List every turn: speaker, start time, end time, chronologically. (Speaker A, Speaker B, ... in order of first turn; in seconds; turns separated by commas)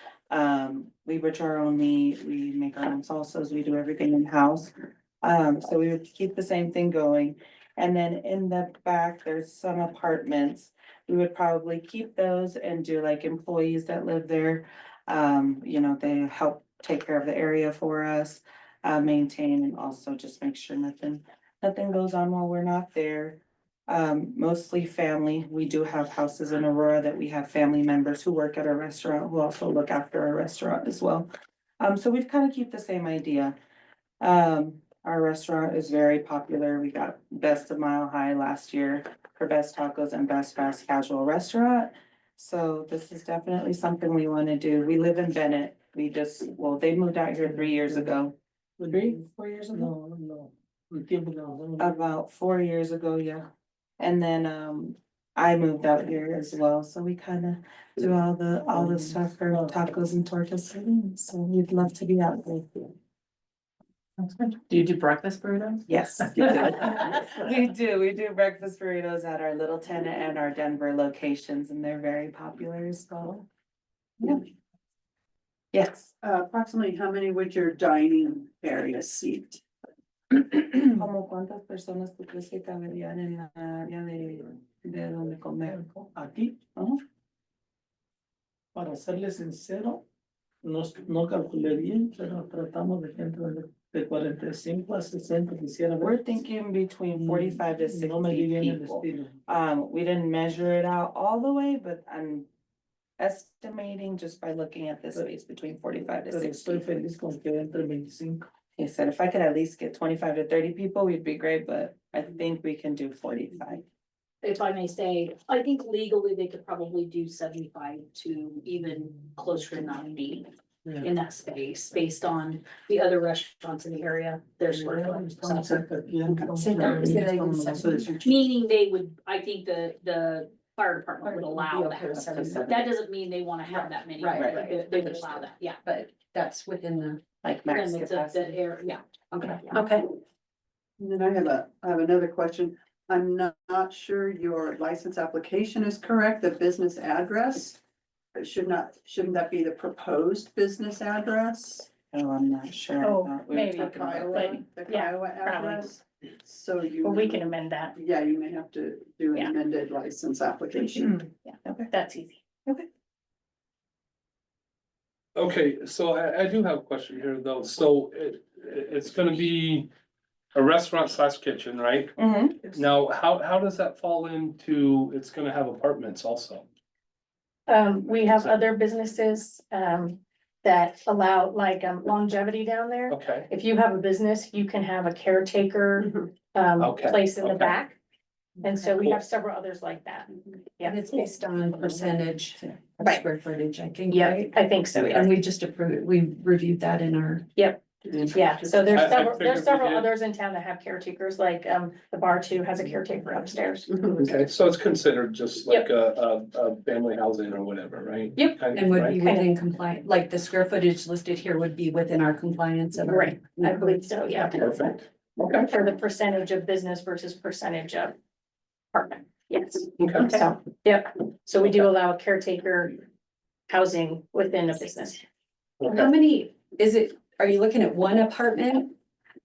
Speaker A: 0.3-4.7, Speaker A: 5.2-31.3, Speaker A: 31.8-33.5, Speaker A: 34.2-48.4, Speaker B: 47.5-48.2, Speaker B: 48.8-51.9, Speaker A: 48.9-49.9, Speaker A: 51.8-53.5, Speaker A: 54.0-62.9, Speaker B: 58.7-59.8, Speaker A: 65.9-73.5, Speaker A: 75.7-76.1, Speaker C: 76.2-79.6, Speaker A: 80.3-85.8, Speaker B: 85.7-86.6, Speaker A: 86.8-87.0, Speaker B: 88.8-90.0, Speaker B: 90.6-96.2, Speaker A: 96.0-102.5, Speaker B: 97.2-99.3, Speaker A: 103.2-106.9, Speaker B: 106.3-108.4, Speaker A: 108.8-113.8, Speaker D: 114.4-125.9, Speaker B: 124.7-128.1, Speaker E: 126.5-128.3, Speaker A: 126.7-128.1, Speaker D: 126.8-127.1, Speaker D: 128.2-135.8, Speaker E: 131.2-132.7, Speaker A: 132.1-132.9, Speaker E: 133.7-137.2, Speaker A: 137.4-138.5, Speaker D: 137.7-139.0, Speaker E: 139.3-140.0, Speaker C: 141.0-147.8, Speaker C: 148.3-151.9, Speaker A: 152.1-154.6, Speaker F: 153.0-155.9, Speaker C: 153.8-161.3, Speaker F: 157.0-157.9, Speaker A: 161.0-161.9, Speaker F: 161.4-162.4, Speaker G: 165.4-169.9, Speaker G: 170.5-176.7, Speaker A: 172.2-172.8, Speaker F: 177.7-188.0, Speaker G: 178.3-178.6, Speaker G: 183.1-183.5, Speaker G: 186.8-187.8, Speaker F: 188.6-192.1, Speaker E: 190.8-197.5, Speaker F: 193.0-193.3, Speaker F: 194.1-195.4, Speaker F: 197.6-203.9, Speaker E: 198.2-199.1, Speaker G: 198.9-200.1, Speaker G: 204.1-209.3, Speaker E: 208.4-214.6, Speaker F: 209.1-209.6, Speaker F: 213.0-214.6, Speaker G: 214.6-215.7, Speaker F: 215.6-218.1, Speaker F: 218.9-223.0, Speaker G: 220.0-220.5, Speaker F: 223.7-225.2, Speaker E: 225.9-228.9